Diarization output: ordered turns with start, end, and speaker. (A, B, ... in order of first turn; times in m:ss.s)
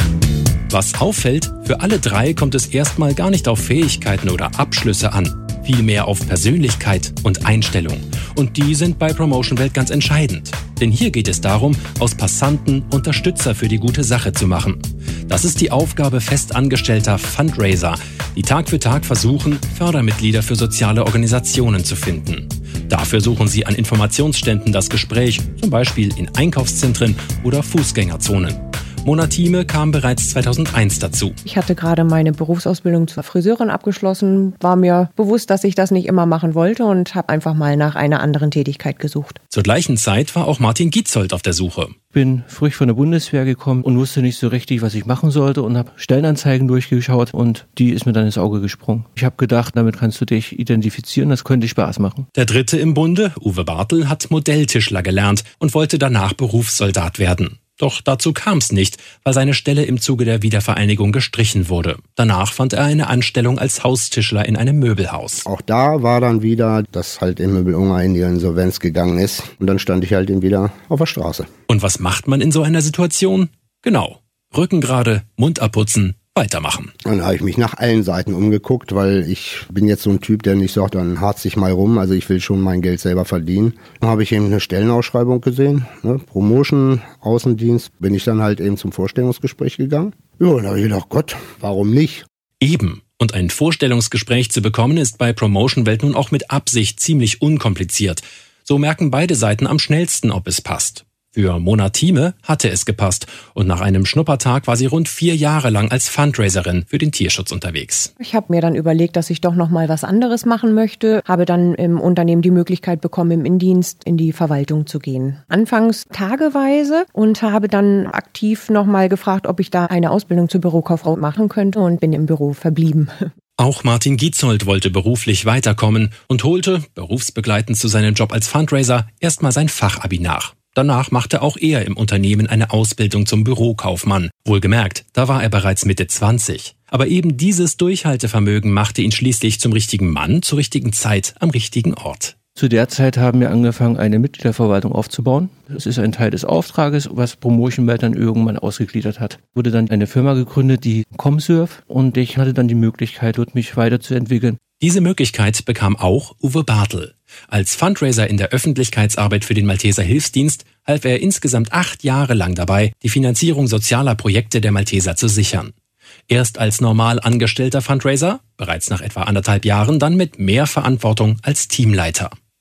0:00.7-0:31.4 A
0:31.4-0:39.4 B
0:39.5-0:42.0 A
0:42.1-0:52.3 C
0:52.4-1:05.5 A
1:05.4-1:11.5 D
1:11.7-1:16.9 A
1:17.0-1:32.2 D
1:32.6-1:48.1 A
1:48.2-2:03.3 B
2:03.6-2:22.4 A
2:22.6-2:34.6 C
2:34.8-2:45.7 A
2:46.3-2:52.4 A